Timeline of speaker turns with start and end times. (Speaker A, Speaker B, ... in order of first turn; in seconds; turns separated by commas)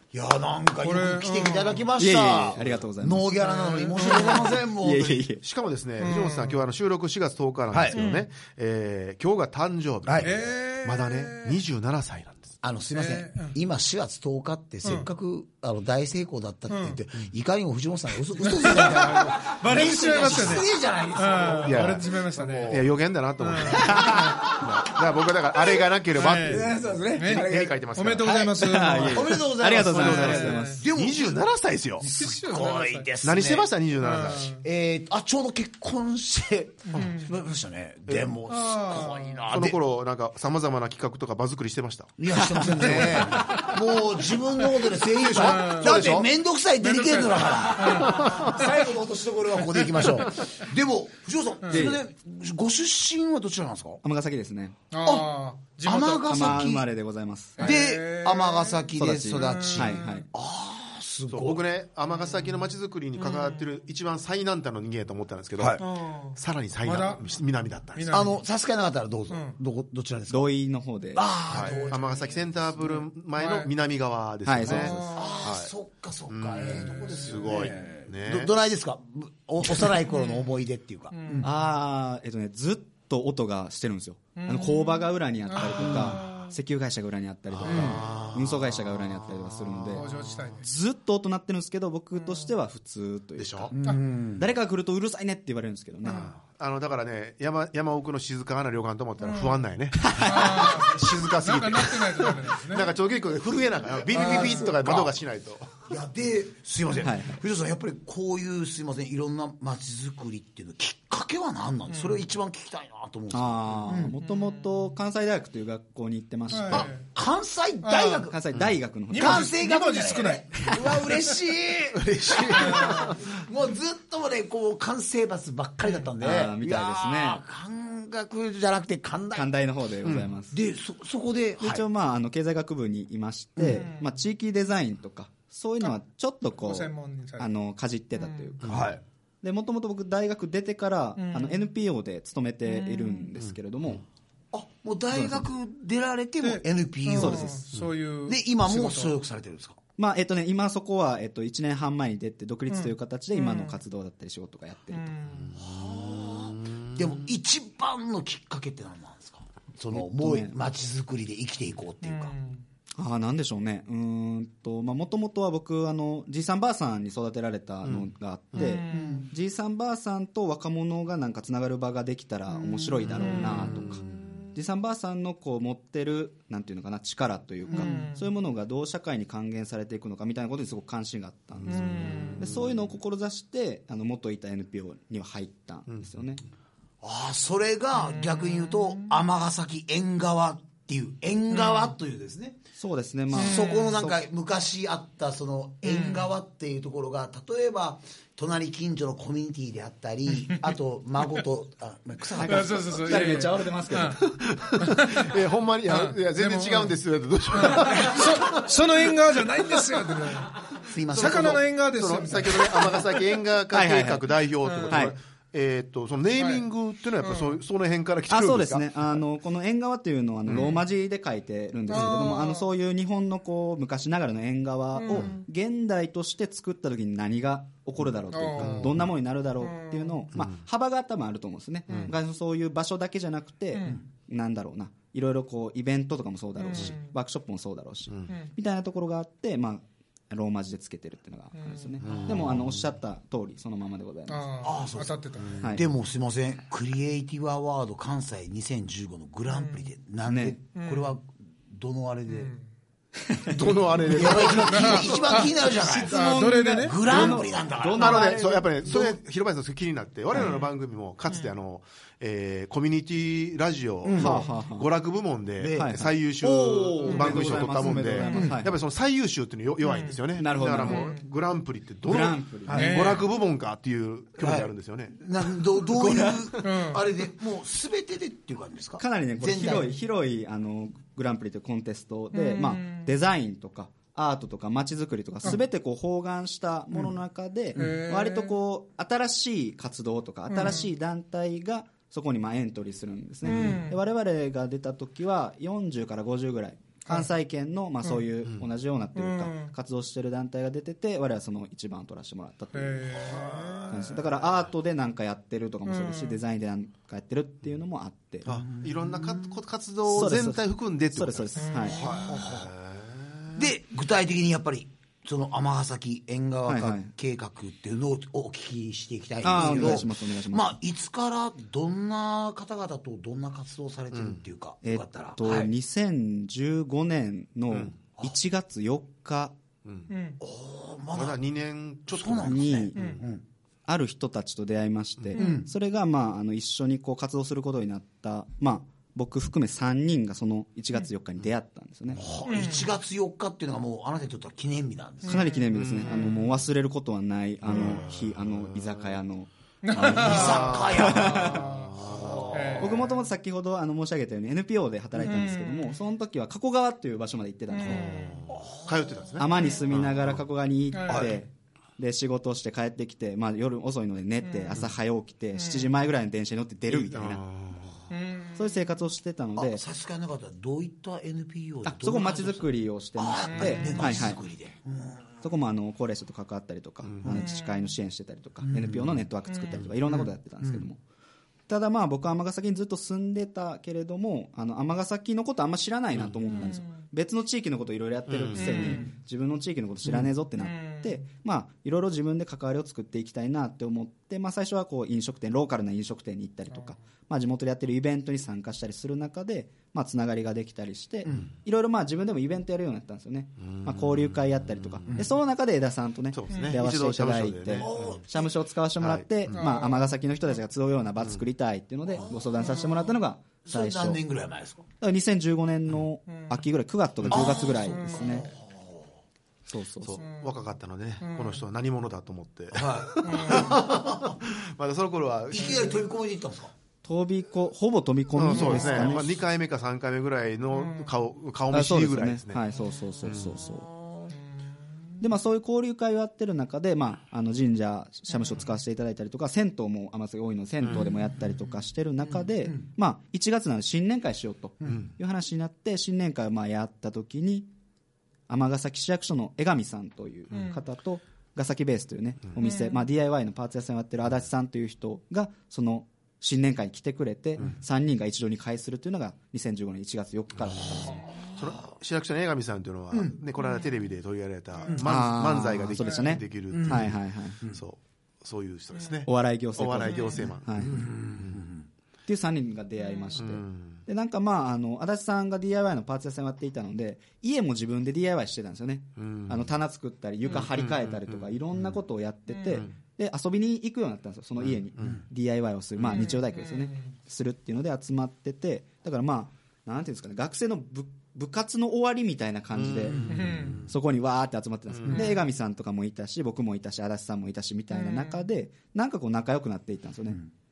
Speaker A: 0.1-5.2, Speaker B: 0.8-1.8, Speaker C: 2.0-3.3, Speaker B: 3.4-4.6, Speaker C: 4.6-5.4, Speaker D: 5.4-12.6, Speaker B: 6.0-6.7, Speaker A: 7.7-8.0, Speaker B: 7.9-8.3, Speaker A: 10.1-10.3, Speaker B: 10.2-11.6, Speaker A: 12.6-21.9, Speaker B: 12.9-13.6, Speaker B: 16.7-17.0, Speaker B: 18.4-24.6, Speaker D: 21.6-28.4, Speaker A: 23.8-24.7, Speaker B: 26.1-30.8, Speaker A: 26.4-31.4, Speaker C: 28.6-30.8, Speaker D: 29.9-32.1, Speaker A: 32.0-33.7, Speaker B: 32.1-33.1, Speaker D: 33.2-34.6, Speaker B: 34.0-34.6, Speaker A: 34.6-39.8, Speaker D: 36.9-37.2, Speaker B: 36.9-37.3, Speaker D: 38.1-38.4, Speaker B: 38.5-39.4, Speaker D: 39.5-43.8, Speaker A: 42.2-54.0, Speaker B: 42.9-43.5, Speaker D: 45.2-46.3, Speaker B: 45.3-46.1, Speaker B: 46.8-48.8, Speaker D: 48.0-48.5, Speaker B: 49.9-50.2, Speaker B: 51.6-51.9, Speaker C: 51.7-52.0, Speaker C: 54.0-54.8, Speaker B: 54.9-56.6, Speaker A: 55.0-55.3, Speaker A: 55.8-56.9, Speaker C: 56.3-57.8, Speaker B: 57.6-60.2, Speaker A: 57.6-61.7, Speaker C: 59.0-60.2, Speaker D: 61.3-68.1, Speaker B: 63.2-63.7, Speaker A: 65.6-65.8, Speaker B: 65.8-67.4, Speaker B: 67.9-68.4, Speaker A: 68.1-70.5, Speaker B: 69.3-69.6, Speaker C: 70.3-71.2, Speaker A: 71.1-72.9, Speaker D: 71.5-75.7, Speaker B: 72.9-73.7, Speaker C: 74.4-75.1, Speaker B: 74.6-75.4, Speaker A: 75.1-81.5, Speaker D: 76.3-78.5, Speaker B: 76.7-77.6, Speaker B: 80.1-80.4, Speaker B: 81.1-81.5, Speaker C: 81.4-90.0, Speaker B: 84.4-86.5, Speaker A: 85.8-86.2, Speaker D: 87.5-90.5, Speaker A: 87.6-88.2, Speaker B: 89.9-90.7, Speaker C: 90.6-93.8, Speaker D: 93.4-93.7, Speaker A: 93.7-94.4, Speaker C: 94.4-96.3, Speaker D: 96.1-105.7, Speaker B: 99.2-99.6, Speaker B: 100.2-102.9, Speaker A: 104.0-105.1, Speaker B: 104.1-104.8, Speaker A: 105.9-114.1, Speaker C: 107.0-107.4, Speaker B: 111.9-112.2, Speaker C: 113.3-116.9, Speaker B: 114.2-114.8, Speaker B: 116.5-117.0, Speaker A: 116.7-118.4, Speaker B: 117.8-118.3, Speaker C: 118.2-119.5, Speaker B: 119.1-121.2, Speaker A: 119.1-129.5, Speaker D: 121.9-123.2, Speaker B: 122.6-122.9, Speaker B: 125.8-126.1, Speaker C: 126.2-127.4, Speaker C: 129.3-130.6, Speaker D: 130.0-130.3, Speaker A: 130.5-131.9, Speaker C: 131.6-138.9, Speaker B: 133.6-134.1, Speaker B: 136.6-137.5, Speaker B: 138.1-138.6, Speaker D: 138.6-138.9, Speaker A: 138.7-139.0, Speaker C: 139.4-144.0, Speaker B: 141.2-141.6, Speaker B: 142.7-143.3, Speaker D: 143.4-144.0, Speaker A: 144.5-147.6, Speaker C: 145.1-145.4, Speaker B: 146.4-149.2, Speaker C: 147.1-147.6, Speaker A: 148.2-149.8, Speaker C: 150.0-155.1, Speaker B: 152.7-153.8, Speaker B: 154.9-155.5, Speaker D: 155.3-157.2, Speaker A: 155.6-162.3, Speaker C: 159.9-160.6, Speaker B: 162.0-162.6, Speaker C: 163.0-186.4, Speaker D: 167.8-168.7, Speaker B: 168.6-169.2, Speaker A: 168.8-169.3, Speaker D: 173.0-174.3, Speaker B: 173.2-173.6, Speaker A: 177.7-178.1, Speaker B: 177.7-178.2, Speaker D: 181.6-182.9, Speaker B: 181.7-182.5, Speaker A: 187.0-192.6, Speaker B: 188.1-189.0, Speaker B: 191.5-191.9, Speaker C: 192.8-194.2, Speaker A: 193.3-203.2, Speaker B: 193.3-193.9, Speaker B: 195.8-196.3, Speaker C: 202.4-204.2, Speaker B: 202.4-204.2, Speaker D: 204.2-209.1, Speaker B: 204.8-205.3, Speaker B: 205.9-207.0, Speaker B: 207.5-213.2, Speaker A: 210.8-211.6, Speaker D: 211.1-219.1, Speaker C: 213.7-214.3, Speaker B: 214.6-215.0, Speaker C: 214.9-215.2, Speaker B: 216.4-216.7, Speaker B: 217.2-217.6, Speaker C: 218.3-244.5, Speaker D: 220.4-220.8, Speaker B: 220.5-220.8, Speaker B: 221.9-222.7, Speaker B: 224.9-225.4, Speaker B: 228.3-228.9, Speaker D: 228.6-229.1, Speaker B: 229.6-230.2, Speaker D: 231.9-232.2, Speaker B: 233.7-234.0, Speaker B: 236.6-237.1, Speaker B: 241.6-242.2, Speaker D: 242.0-242.8, Speaker B: 244.3-245.6, Speaker A: 244.6-252.5, Speaker B: 249.5-249.9, Speaker C: 250.2-250.6, Speaker B: 250.7-251.1, Speaker B: 252.3-252.6, Speaker C: 253.3-253.7, Speaker D: 253.5-255.5, Speaker B: 253.9-257.4, Speaker A: 254.1-258.3, Speaker C: 256.0-259.0, Speaker D: 257.9-275.2, Speaker A: 258.9-259.2, Speaker C: 260.3-260.6, Speaker B: 260.4-260.7, Speaker A: 264.0-264.4, Speaker C: 264.2-264.9, Speaker A: 265.6-265.9, Speaker C: 265.8-268.8, Speaker B: 267.0-268.6, Speaker A: 268.2-268.6, Speaker B: 269.8-270.2, Speaker C: 270.4-271.1, Speaker B: 270.8-271.2, Speaker C: 272.1-273.2, Speaker B: 272.7-273.3, Speaker A: 274.4-279.9, Speaker D: 275.8-276.4, Speaker B: 276.6-277.1, Speaker C: 279.0-308.5, Speaker B: 282.3-283.1, Speaker B: 287.7-288.6, Speaker B: 290.5-290.9, Speaker B: 293.4-294.0, Speaker B: 299.1-299.7, Speaker B: 302.7-304.2, Speaker B: 305.9-306.4, Speaker D: 308.4-313.6, Speaker A: 308.5-309.6, Speaker C: 310.1-312.0, Speaker B: 311.6-312.4, Speaker A: 311.9-312.7, Speaker A: 313.6-325.7, Speaker C: 316.7-317.1, Speaker C: 319.4-320.7, Speaker D: 324.1-324.4, Speaker C: 324.8-329.6, Speaker D: 329.8-330.1, Speaker B: 330.1-330.4, Speaker A: 330.4-331.4, Speaker D: 331.1-333.2, Speaker A: 332.1-333.4, Speaker C: 332.4-333.0, Speaker C: 333.9-342.2, Speaker A: 335.4-335.7, Speaker A: 342.2-345.5, Speaker B: 342.4-342.9, Speaker C: 345.3-351.7, Speaker B: 345.3-346.4, Speaker D: 345.7-346.5, Speaker D: 347.7-349.1, Speaker B: 349.8-352.0, Speaker A: 350.0-352.9, Speaker D: 350.3-352.8, Speaker B: 352.5-353.1, Speaker C: 352.8-358.3, Speaker B: 355.2-355.9, Speaker B: 357.7-358.5, Speaker D: 357.8-360.4, Speaker A: 358.5-359.2, Speaker C: 359.4-367.4, Speaker B: 360.9-361.3, Speaker D: 361.1-361.4, Speaker B: 365.6-365.9, Speaker D: 366.9-368.1, Speaker B: 368.1-368.6, Speaker C: 368.6-369.8, Speaker A: 369.6-375.4, Speaker C: 371.8-374.4, Speaker B: 373.5-374.1, Speaker C: 375.4-381.0, Speaker D: 377.0-377.4, Speaker B: 377.3-377.9, Speaker A: 378.6-379.2, Speaker B: 379.5-379.8, Speaker A: 380.1-380.9, Speaker C: 381.7-414.2, Speaker B: 386.5-387.0, Speaker D: 388.3-389.0, Speaker B: 388.6-389.1, Speaker B: 390.6-391.2, Speaker A: 401.2-401.5, Speaker D: 403.6-405.2, Speaker A: 405.1-405.3, Speaker D: 406.3-408.2, Speaker B: 406.5-406.8, Speaker A: 407.7-408.5, Speaker D: 409.0-409.7, Speaker B: 409.5-410.1, Speaker A: 412.2-412.8, Speaker A: 413.6-414.9, Speaker C: 415.0-418.5, Speaker B: 416.3-416.6, Speaker D: 417.2-417.6, Speaker A: 417.3-419.1, Speaker B: 417.7-418.4, Speaker C: 419.7-420.2, Speaker D: 420.0-426.0, Speaker B: 420.2-420.5, Speaker B: 421.2-421.6, Speaker A: 422.7-424.3, Speaker B: 423.2-423.7, Speaker A: 425.5-426.7, Speaker C: 427.0-429.4, Speaker D: 428.3-432.6, Speaker B: 428.5-429.2, Speaker B: 430.7-431.1, Speaker C: 431.7-433.9, Speaker D: 433.2-433.6, Speaker C: 435.2-447.7, Speaker D: 440.8-441.1, Speaker C: 448.5-461.2, Speaker B: 450.5-450.8, Speaker B: 452.6-453.0, Speaker D: 460.6-471.6, Speaker A: 461.1-461.7, Speaker C: 465.0-467.6, Speaker B: 466.0-466.4, Speaker A: 466.7-467.8, Speaker C: 469.3-471.1, Speaker B: 470.1-470.5, Speaker A: 470.8-471.9, Speaker C: 472.3-500.4, Speaker D: 473.4-474.0, Speaker D: 479.2-479.7, Speaker D: 480.5-481.9, Speaker D: 484.6-485.2, Speaker D: 486.0-486.3, Speaker B: 486.1-487.0, Speaker D: 492.7-493.8, Speaker B: 493.3-493.8, Speaker D: 494.9-495.3, Speaker B: 497.9-498.4